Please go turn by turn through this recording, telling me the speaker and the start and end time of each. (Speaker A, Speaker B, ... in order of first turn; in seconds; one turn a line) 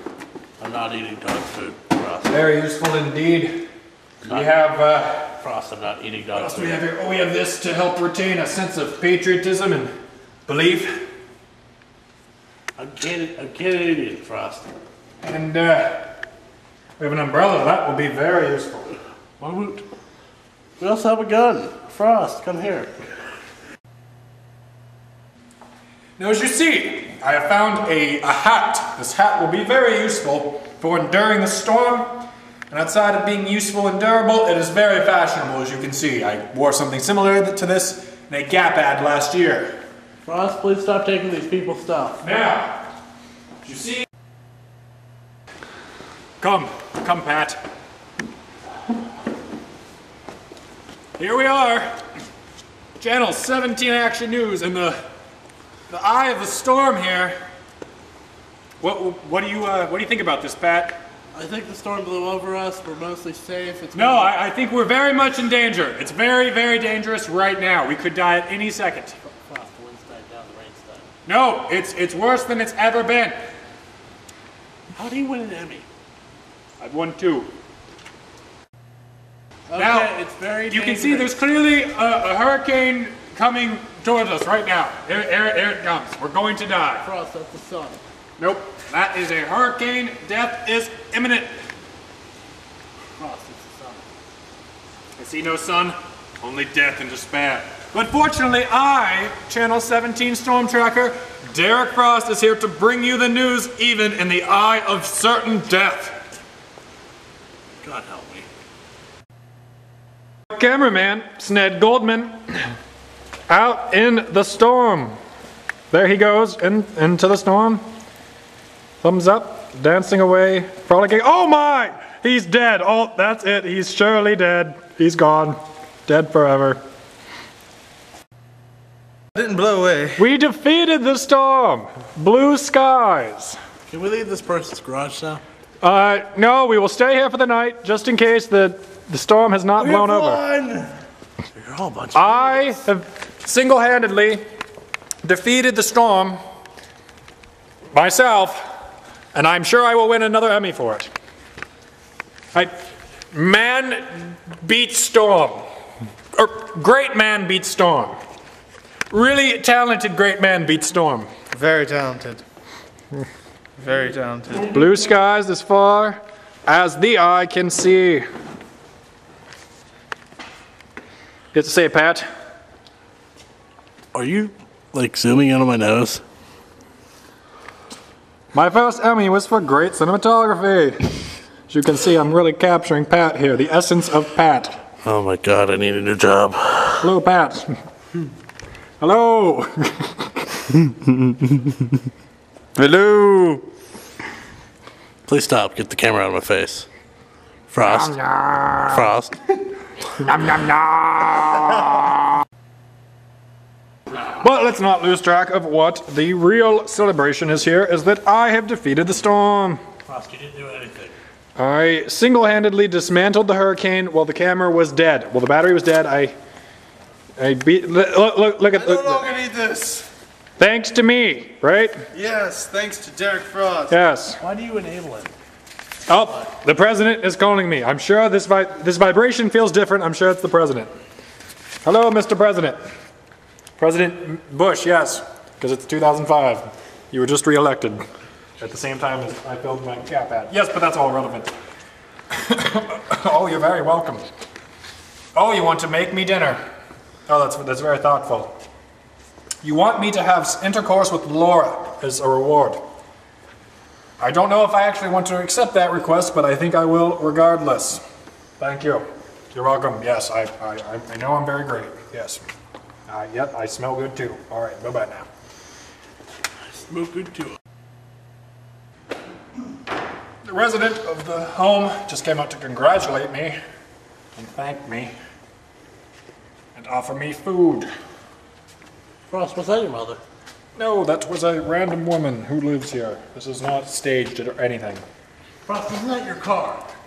Speaker A: 0.6-2.3
Speaker B: 2.3-3.6
Speaker A: 4.2-4.5
Speaker B: 4.2-5.3
Speaker A: 5.4-6.8
Speaker B: 6.3-9.9
Speaker B: 10.5-11.0
Speaker A: 12.8-14.7
Speaker B: 15.2-16.1
Speaker B: 17.0-18.9
Speaker A: 19.4-19.8
Speaker A: 20.8-23.0
Speaker B: 26.2-39.7
Speaker A: 40.2-42.2
Speaker B: 42.2-42.8
Speaker B: 43.6-44.0
Speaker B: 46.4-47.6
Speaker B: 51.2-51.9
Speaker B: 53.0-55.0
Speaker B: 55.9-57.4
Speaker B: 58.8-61.0
Speaker A: 61.3-64.3
Speaker B: 63.9-69.2
Speaker A: 69.4-71.1
Speaker B: 71.2-73.4
Speaker A: 74.9-75.8
Speaker B: 76.8-77.5
Speaker A: 79.7-81.3
Speaker B: 79.8-80.1
Speaker B: 80.7-87.0
Speaker A: 87.0-88.0
Speaker B: 88.4-91.5
Speaker A: 93.2-94.0
Speaker B: 95.2-106.2
Speaker A: 107.8-108.5
Speaker B: 110.5-112.6
Speaker B: 113.5-115.2
Speaker B: 115.9-117.8
Speaker B: 119.0-126.8
Speaker C: 129.3-130.2
Speaker B: 130.2-133.6
Speaker A: 133.9-135.4
Speaker B: 135.8-140.4
Speaker A: 139.8-140.9
Speaker A: 141.5-142.8
Speaker B: 142.1-144.4
Speaker B: 145.2-146.4
Speaker B: 147.9-148.6
Speaker B: 149.3-151.1
Speaker B: 153.3-155.6
Speaker B: 156.3-158.1
Speaker B: 159.1-161.3
Speaker C: 161.5-162.4
Speaker C: 163.8-164.7
Speaker A: 164.5-164.9
Speaker B: 164.6-168.2
Speaker B: 171.5-172.2
Speaker A: 174.1-176.2
Speaker B: 178.5-184.8
Speaker A: 185.0-187.1
Speaker B: 187.0-187.7
Speaker B: 189.0-190.8
Speaker B: 192.8-193.6
Speaker C: 192.9-193.5
Speaker A: 195.3-196.9
Speaker A: 197.7-198.2
Speaker B: 197.8-199.1
Speaker A: 198.8-199.4
Speaker B: 200.1-202.2
Speaker B: 204.3-209.8
Speaker A: 210.1-211.1
Speaker B: 211.6-216.3
Speaker B: 217.4-219.3
Speaker C: 219.0-220.0
Speaker A: 219.1-219.9
Speaker B: 220.6-222.0
Speaker C: 222.1-223.9
Speaker B: 223.9-224.4
Speaker A: 224.4-225.3
Speaker B: 226.1-230.9
Speaker B: 231.8-232.8
Speaker B: 233.8-238.0
Speaker B: 238.6-241.5
Speaker B: 242.3-244.3
Speaker B: 245.3-246.6
Speaker B: 247.3-248.6
Speaker B: 249.6-252.8
Speaker B: 254.2-258.0
Speaker B: 258.6-262.4
Speaker B: 263.1-265.3
Speaker A: 266.7-267.6
Speaker B: 270.4-273.6
Speaker B: 274.4-275.1
Speaker B: 276.7-277.9
Speaker A: 279.3-280.2
Speaker B: 280.8-285.0
Speaker A: 285.6-286.8